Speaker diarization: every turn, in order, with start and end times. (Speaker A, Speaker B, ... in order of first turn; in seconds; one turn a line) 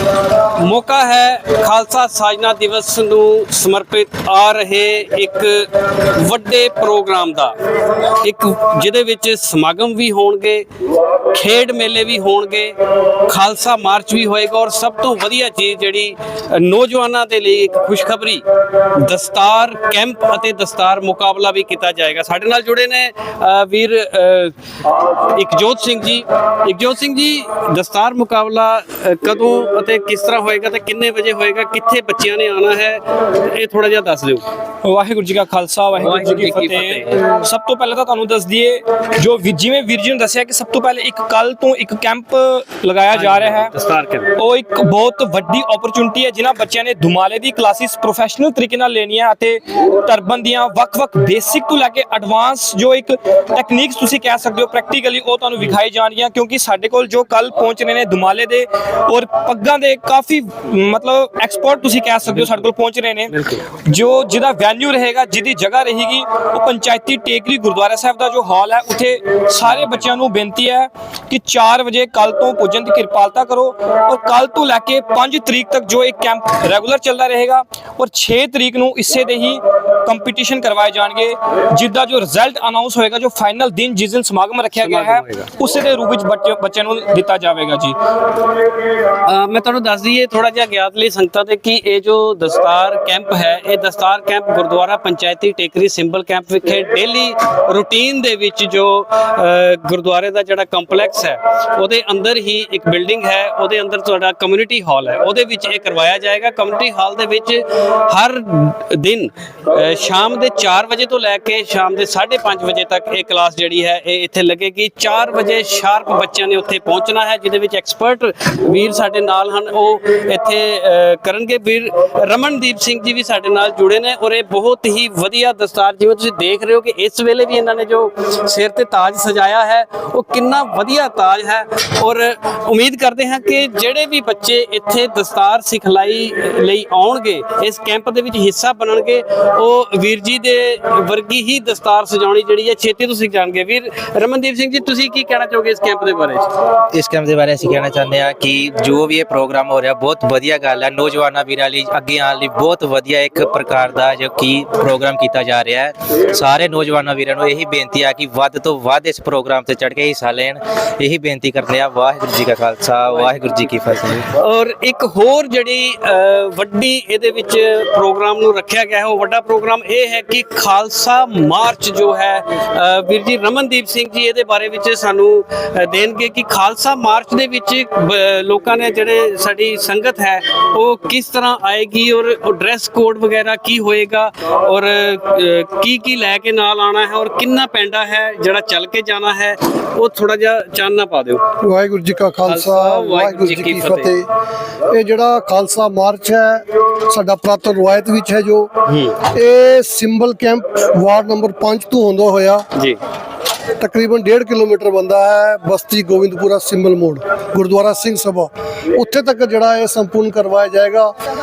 Speaker A: 0.6-7.6
Speaker A: 8.2-10.7
Speaker A: 11.3-24.5
Speaker A: 25.1-34.4
Speaker B: 34.8-43.7
Speaker A: 36.0-37.2
Speaker A: 43.1-44.4
Speaker B: 44.4-63.3
Speaker A: 62.3-62.7
Speaker A: 63.3-63.6
Speaker B: 63.9-88.0
Speaker A: 69.7-70.0
Speaker A: 84.7-85.5
Speaker A: 89.2-146.5
Speaker C: 146.9-164.2
Speaker A: 164.2-191.4
Speaker D: 191.6-194.3
Speaker A: 192.5-194.1
Speaker D: 194.9-198.7
Speaker A: 198.9-199.2
Speaker D: 199.2-202.6
Speaker D: 203.8-211.1